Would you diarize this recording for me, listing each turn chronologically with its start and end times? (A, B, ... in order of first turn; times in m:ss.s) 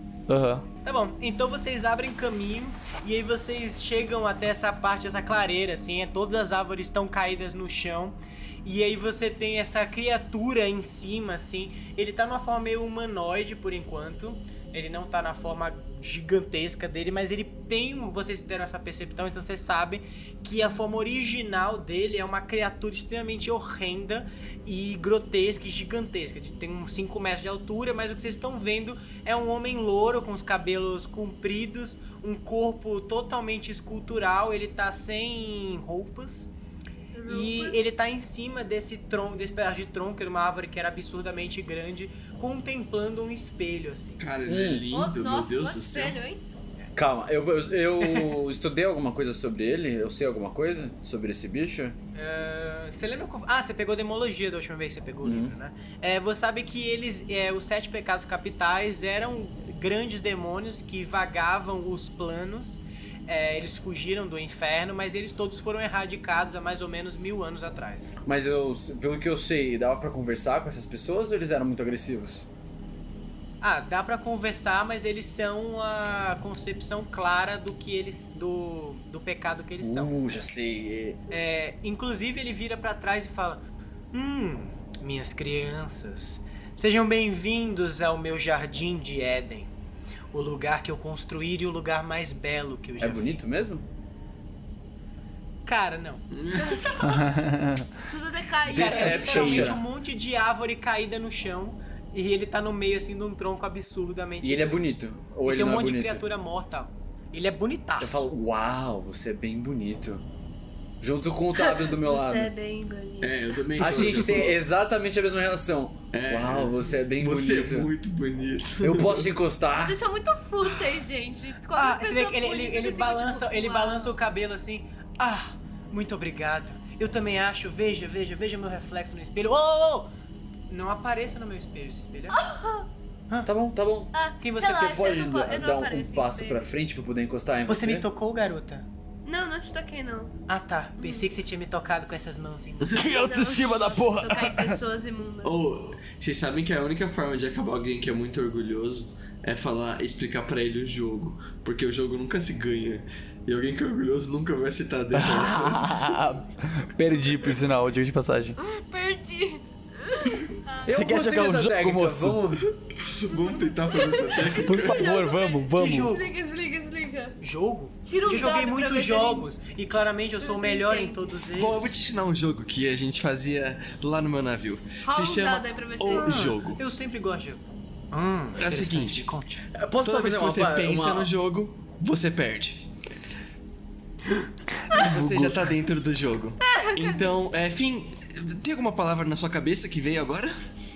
0:00.3-0:00.6 A
0:00.8-0:36.5 B
0:37.1-0:37.8 C
0:37.3-0:44.2 B
0:44.2-0:46.2 D
0:44.4-0:44.8 E
0:44.9-0:46.4 C
0:46.9-0:52.0 E
0:52.1-1:08.1 B
0:55.2-0:55.5 E
1:08.2-1:12.5 E
1:13.6-1:20.1 B
1:19.8-1:21.2 E
1:21.3-1:23.6 B
1:24.1-1:29.7 B
1:30.3-1:33.4 B
1:33.0-1:33.8 E
1:35.6-1:36.2 B
1:36.3-1:37.2 D
1:36.6-1:37.0 C
1:37.0-1:37.9 A
1:38.1-1:39.7 C
1:38.7-1:39.8 E
1:38.7-1:44.8 B
1:44.4-1:46.2 E
1:45.4-1:48.3 B
1:48.0-1:50.2 E
1:51.0-1:52.5 E
1:51.5-1:54.3 C
1:53.2-1:54.6 D
1:53.8-1:57.9 E
1:56.1-1:59.3 D
1:58.8-2:00.0 E
1:59.8-2:04.2 C
2:00.6-2:01.0 B
2:01.8-2:10.1 B
2:10.7-2:12.4 B
2:12.3-2:12.9 C
2:13.4-2:18.0 E
2:14.1-2:16.7 C
2:14.4-2:15.3 B
2:17.7-2:18.8 B
2:19.2-2:20.3 C
2:20.5-2:23.2 B
2:21.0-2:21.3 C
2:22.9-2:24.8 A
2:23.0-2:25.6 C
2:25.4-2:36.3 D
2:35.1-2:38.6 A
2:38.6-2:41.0 C
2:40.9-2:42.6 E
2:40.9-2:42.5 A
2:42.9-2:45.2 D
2:43.3-2:47.4 C
2:44.6-2:46.1 A
2:45.7-2:46.2 B
2:47.4-2:51.8 B
2:48.0-2:49.5 C
2:50.4-2:51.3 C
2:51.5-2:56.8 D
2:55.0-2:56.5 C
2:56.1-2:59.6 B
2:58.6-2:59.3 D
2:59.7-3:01.3 E
3:00.0-3:02.8 D
3:04.9-3:05.6 A
3:04.9-3:10.5 D
3:06.6-3:07.3 C